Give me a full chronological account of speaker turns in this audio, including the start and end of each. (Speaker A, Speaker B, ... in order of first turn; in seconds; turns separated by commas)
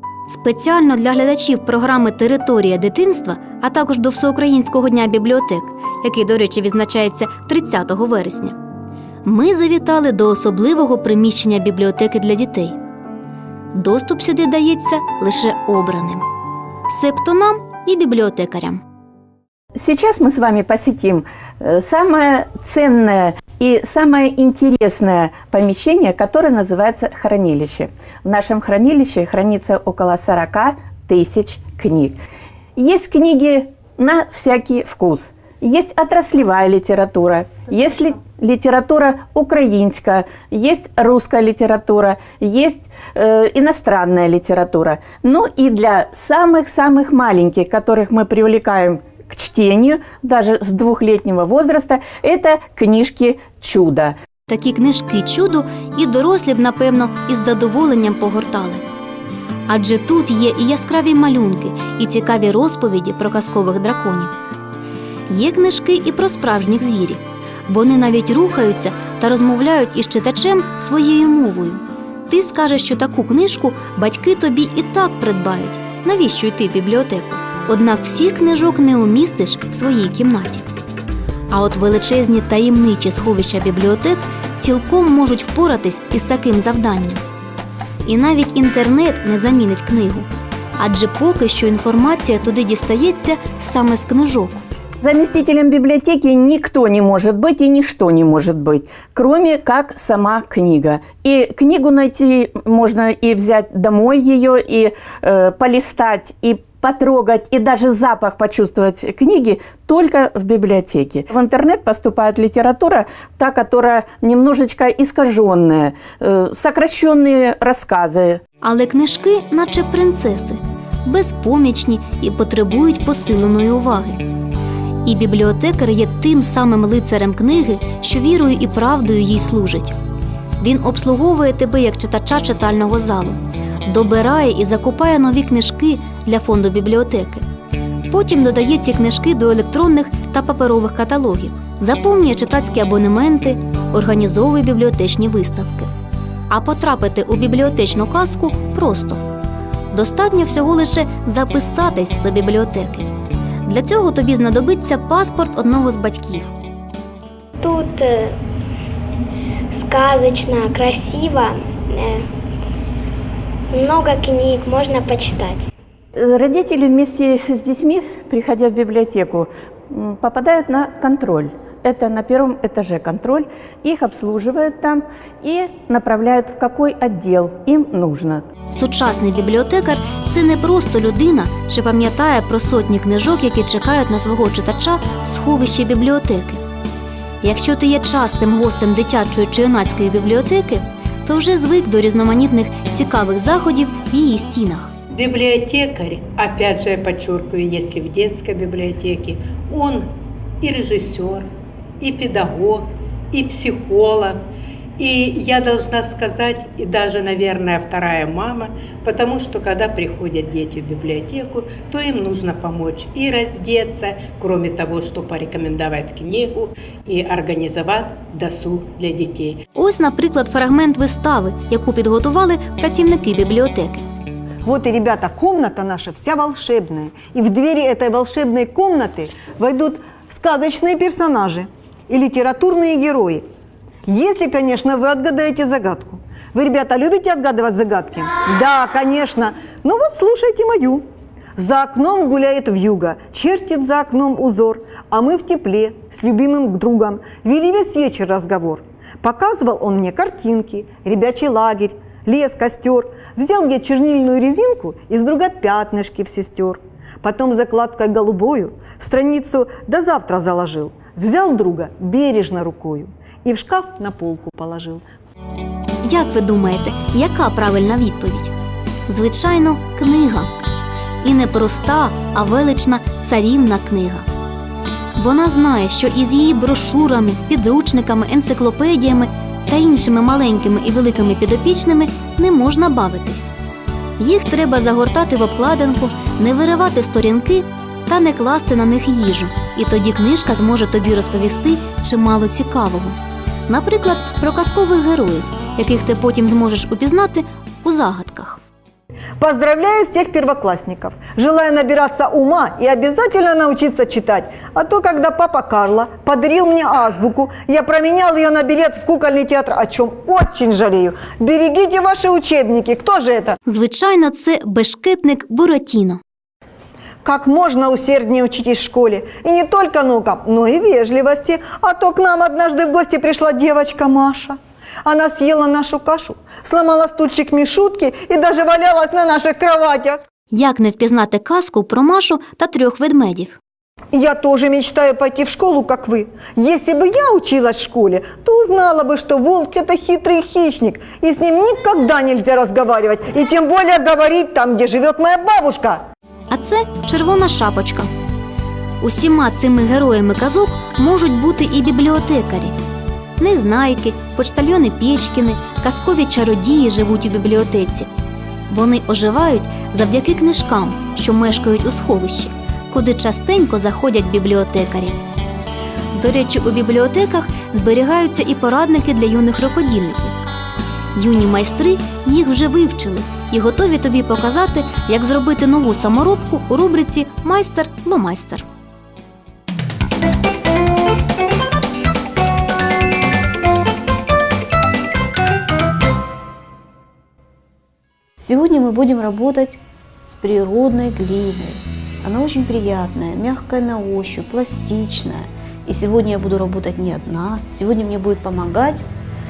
Speaker A: 0.3-8.6, Speaker A: 9.2-12.8, Speaker A: 13.7-16.2, Speaker A: 16.9-18.8, Speaker B: 19.8-32.2, Speaker B: 32.8-54.2, Speaker A: 54.5-58.8, Speaker A: 59.7-64.3, Speaker A: 65.3-80.7, Speaker A: 81.5-87.2, Speaker A: 88.0-94.6, Speaker B: 95.0-118.4, Speaker A: 118.6-124.2, Speaker A: 125.0-129.9, Speaker A: 130.6-137.4, Speaker A: 138.1-145.9, Speaker A: 146.5-149.2, Speaker A: 149.9-153.1, Speaker A: 153.6-156.5, Speaker C: 157.7-158.3, Speaker C: 159.8-162.1, Speaker C: 163.8-165.6, Speaker B: 166.2-178.4, Speaker A: 178.7-186.6, Speaker A: 187.4-194.9, Speaker D: 195.1-200.1, Speaker D: 200.6-201.5, Speaker D: 202.0-204.4, Speaker D: 205.0-219.6, Speaker A: 219.8-224.1, Speaker E: 224.6-233.4, Speaker E: 234.1-241.0, Speaker E: 241.6-265.0, Speaker A: 266.1-268.5, Speaker A: 269.1-270.5, Speaker A: 271.2-274.3, Speaker A: 275.2-283.5, Speaker A: 284.2-293.2, Speaker A: 293.7-298.6, Speaker E: 299.4-313.6, Speaker A: 313.7-316.2, Speaker E: 317.2-330.2, Speaker A: 330.5-333.6, Speaker E: 334.1-346.0, Speaker A: 346.5-348.1, Speaker A: 349.0-352.8, Speaker A: 353.4-358.1, Speaker A: 358.7-365.2, Speaker A: 366.1-370.4, Speaker A: 371.1-378.6, Speaker F: 388.4-399.1